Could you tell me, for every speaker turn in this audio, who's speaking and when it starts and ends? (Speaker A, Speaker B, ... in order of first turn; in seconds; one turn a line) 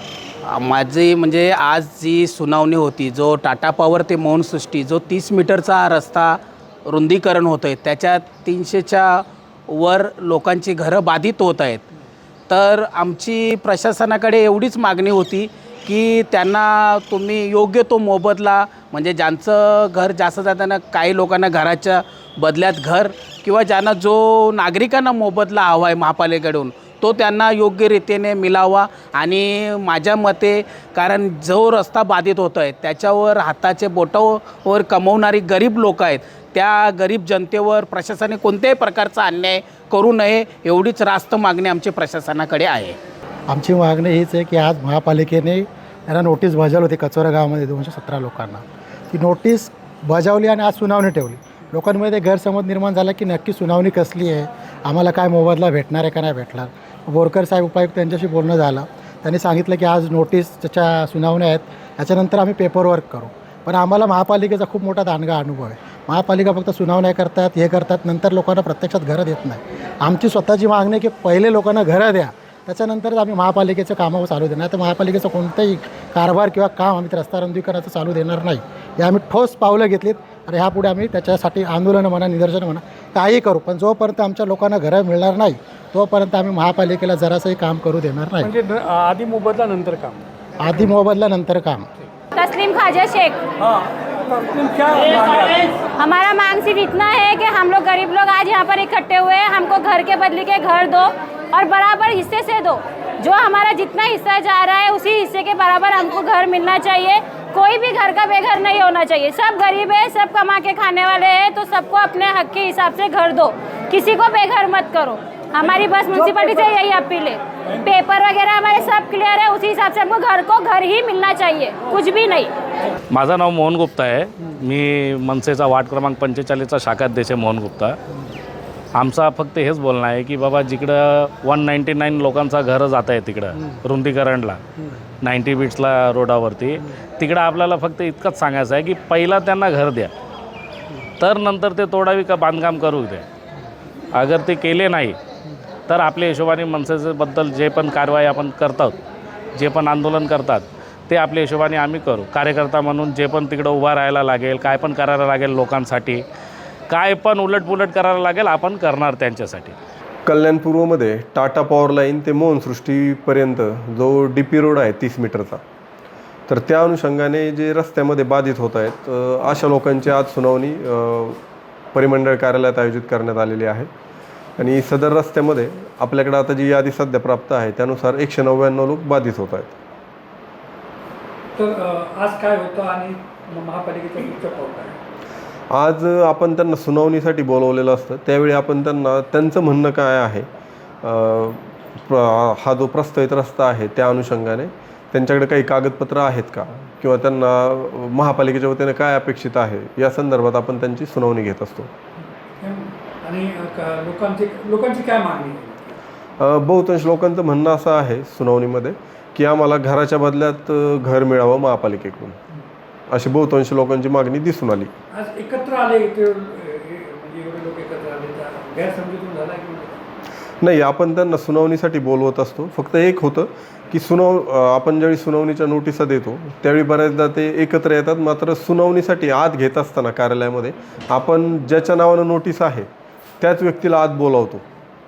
Speaker A: 0.5-11.9
Speaker A: 12.5-43.0
Speaker B: 43.5-88.5
Speaker C: 88.4-90.2
Speaker B: 90.6-91.9
Speaker D: 92.3-93.5
Speaker C: 93.6-95.4
Speaker D: 95.1-122.5
Speaker E: 123.1-128.0
Speaker E: 128.9-134.6
Speaker E: 135.2-140.1
Speaker E: 141.2-143.2
Speaker E: 144.1-145.2
Speaker E: 145.9-148.9
Speaker E: 149.6-156.2
Speaker E: 156.9-159.7
Speaker F: 160.2-165.6
Speaker F: 166.5-171.4
Speaker F: 171.9-173.9
Speaker F: 174.6-179.8
Speaker C: 181.6-185.0
Speaker F: 185.7-190.5
Speaker F: 191.0-201.9
Speaker C: 202.6-206.0
Speaker F: 206.4-212.4
Speaker F: 213.1-214.9
Speaker C: 215.1-220.0
Speaker F: 220.6-232.9
Speaker F: 233.4-234.6